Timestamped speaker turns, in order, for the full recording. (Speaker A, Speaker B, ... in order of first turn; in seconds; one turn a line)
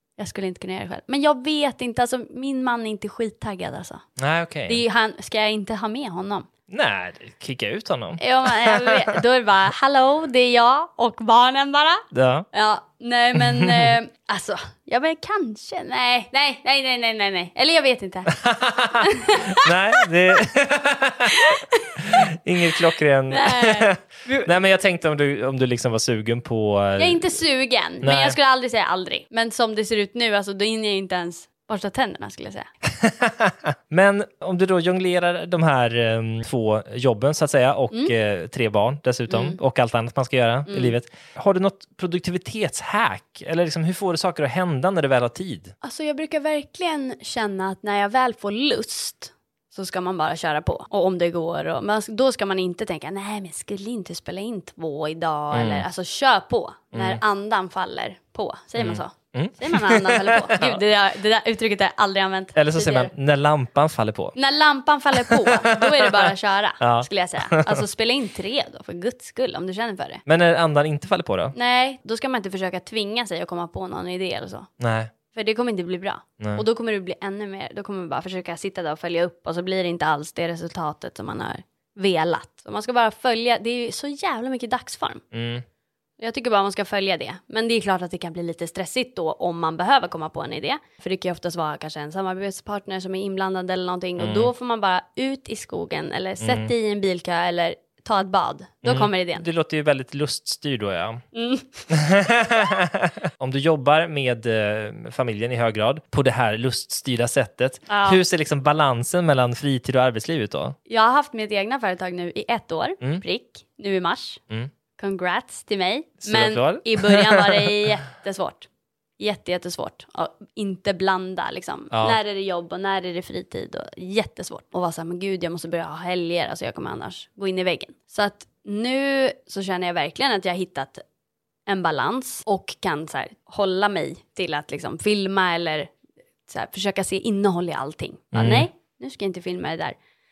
Speaker A: 0.2-4.0
Speaker B: 4.2-4.8
Speaker A: 4.7-6.5
Speaker B: 6.7-9.1
Speaker A: 8.2-18.3
Speaker B: 12.1-12.5
Speaker B: 13.4-13.9
Speaker B: 18.3-21.4
Speaker A: 19.0-20.1
Speaker A: 21.3-21.9
Speaker B: 22.0-27.4
Speaker A: 23.3-24.5
Speaker A: 27.0-32.7
Speaker B: 28.0-28.4
Speaker B: 33.0-45.7
Speaker A: 39.3-39.6
Speaker A: 40.7-41.0
Speaker A: 45.8-63.1
Speaker B: 55.5-55.9
Speaker B: 56.9-57.2
Speaker B: 58.8-60.8
Speaker B: 62.6-64.3
Speaker A: 64.4-70.2
Speaker B: 65.2-67.8
Speaker B: 70.3-71.5
Speaker A: 71.5-74.7
Speaker B: 74.8-75.1
Speaker A: 75.3-85.2
Speaker B: 76.4-76.7
Speaker B: 85.3-85.7
Speaker A: 86.2-99.5
Speaker B: 94.2-94.5
Speaker B: 96.4-96.7
Speaker B: 98.8-101.2
Speaker A: 101.3-101.8
Speaker B: 101.9-110.8
Speaker A: 107.9-108.2
Speaker A: 110.9-114.4
Speaker A: 115.0-118.7
Speaker B: 116.2-117.7
Speaker A: 119.2-131.0
Speaker B: 121.9-122.2
Speaker A: 131.7-135.9
Speaker A: 136.5-140.0
Speaker B: 138.3-138.7